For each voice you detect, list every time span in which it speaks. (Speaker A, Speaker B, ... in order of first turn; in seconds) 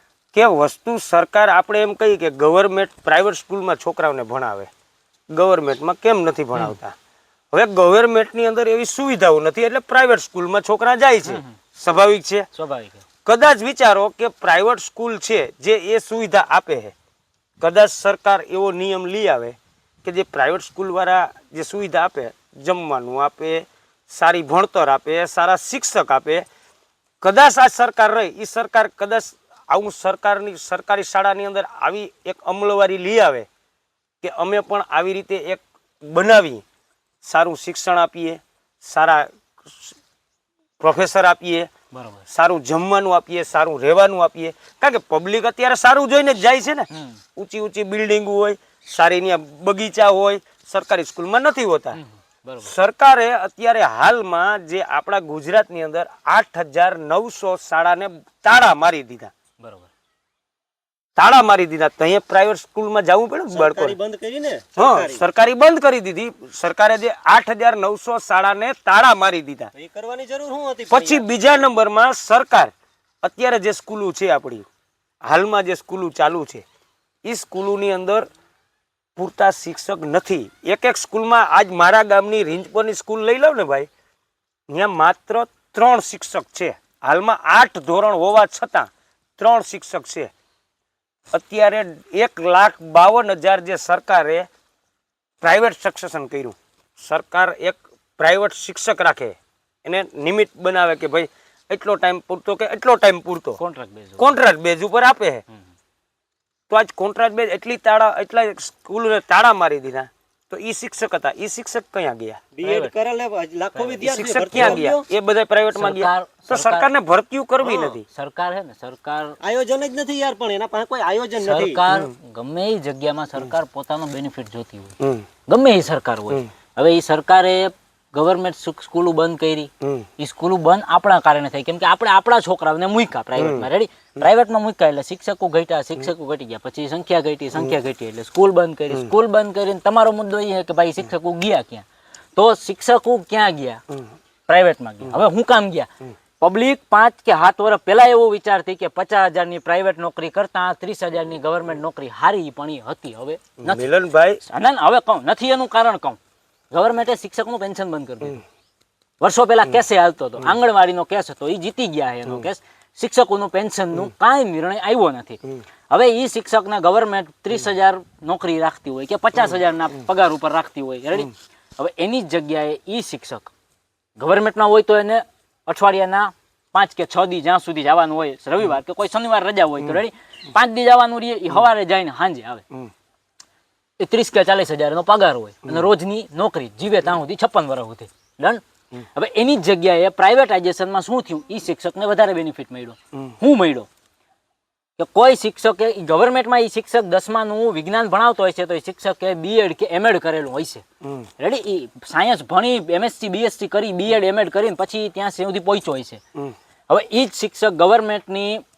Speaker A: 0.3-4.7, 5.3-6.9, 7.5-12.5, 13.2-16.9, 17.6-26.4, 27.2-33.5, 34.2-36.6, 37.2-40.0, 40.8-41.7, 42.3-52.0, 52.6-59.3, 61.2-63.9, 64.8-69.7, 70.9-72.7, 73.2-74.7, 75.2-76.6, 77.2-78.3, 79.2-83.9, 84.7-90.3, 91.3-94.5, 95.4-103.6, 104.2-105.4, 106.7-112.4, 114.0-118.0, 125.0-125.3, 129.8-130.1, 133.4-133.7, 153.6-154.4, 201.0-201.3
Speaker B: 11.2-11.6, 12.5-13.0, 41.9-42.2, 46.9-47.2, 51.9-52.7, 59.6-59.9, 103.6-104.3, 112.6-112.9, 113.7-114.8, 115.7-116.9, 118.0-119.4, 121.4-124.9, 125.5-141.8, 142.3-143.8, 144.5-145.9, 146.4-153.9, 154.4-156.2, 156.7-158.4, 159.2-173.5, 174.2-182.6, 184.0-188.6, 189.1-193.9, 195.0-200.8, 201.4-206.2, 206.9-208.6
Speaker C: 63.5-65.2, 69.7-71.2, 112.5-115.0, 117.6-118.0, 119.4-121.8